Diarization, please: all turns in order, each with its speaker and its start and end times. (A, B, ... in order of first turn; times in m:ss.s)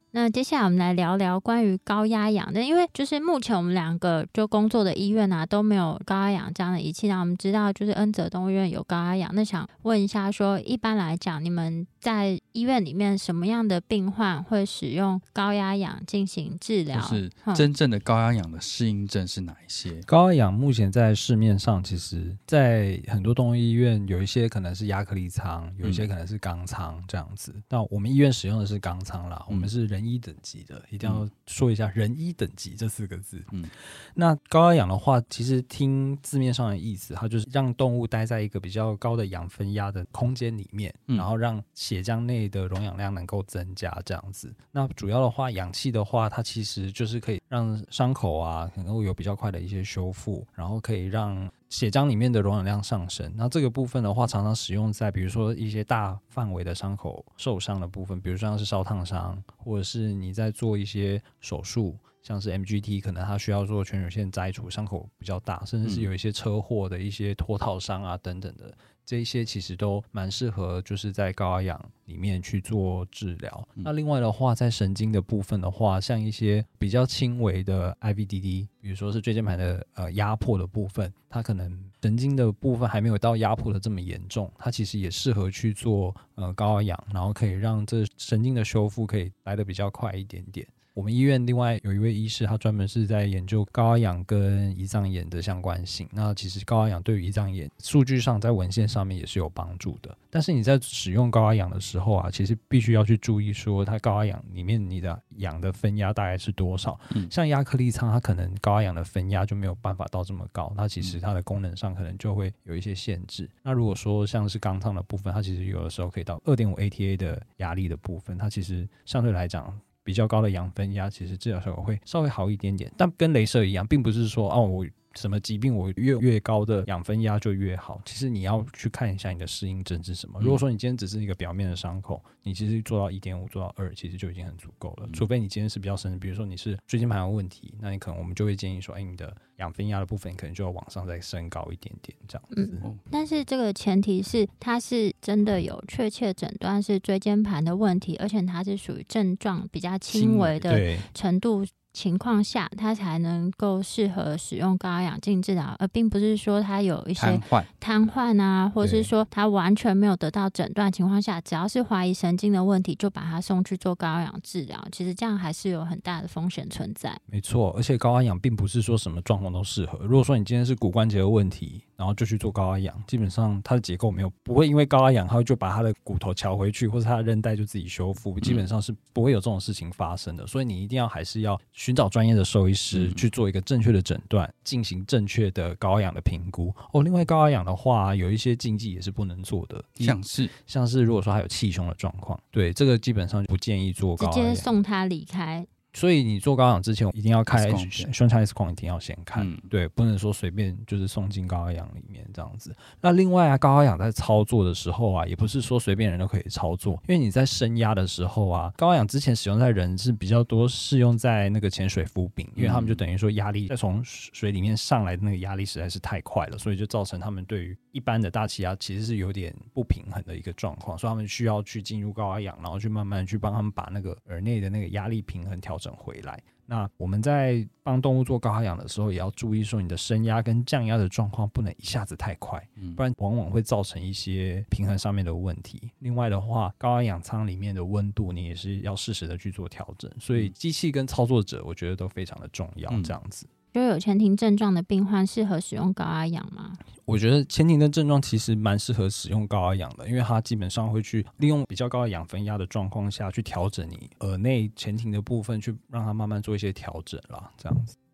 0:00.1-0:17.6 A
0:16.9-0:20.1 B
0:20.1-0:33.5 C
0:34.2-2:22.9 C
1:05.8-1:06.1 B
2:22.5-2:47.2 A
2:30.1-2:30.7 B
2:30.7-2:31.1 C
2:37.2-2:37.7 B
2:38.8-2:39.1 C
2:47.3-3:14.7 C
3:02.9-3:03.2 B
3:10.0-3:10.5 B
3:14.2-3:15.7 A
3:15.9-4:03.5 C
3:17.5-3:18.1 B
3:19.4-3:19.7 B
3:32.6-3:33.0 B
4:02.9-4:03.2 B
4:03.7-4:06.8 A
4:07.0-4:18.0 C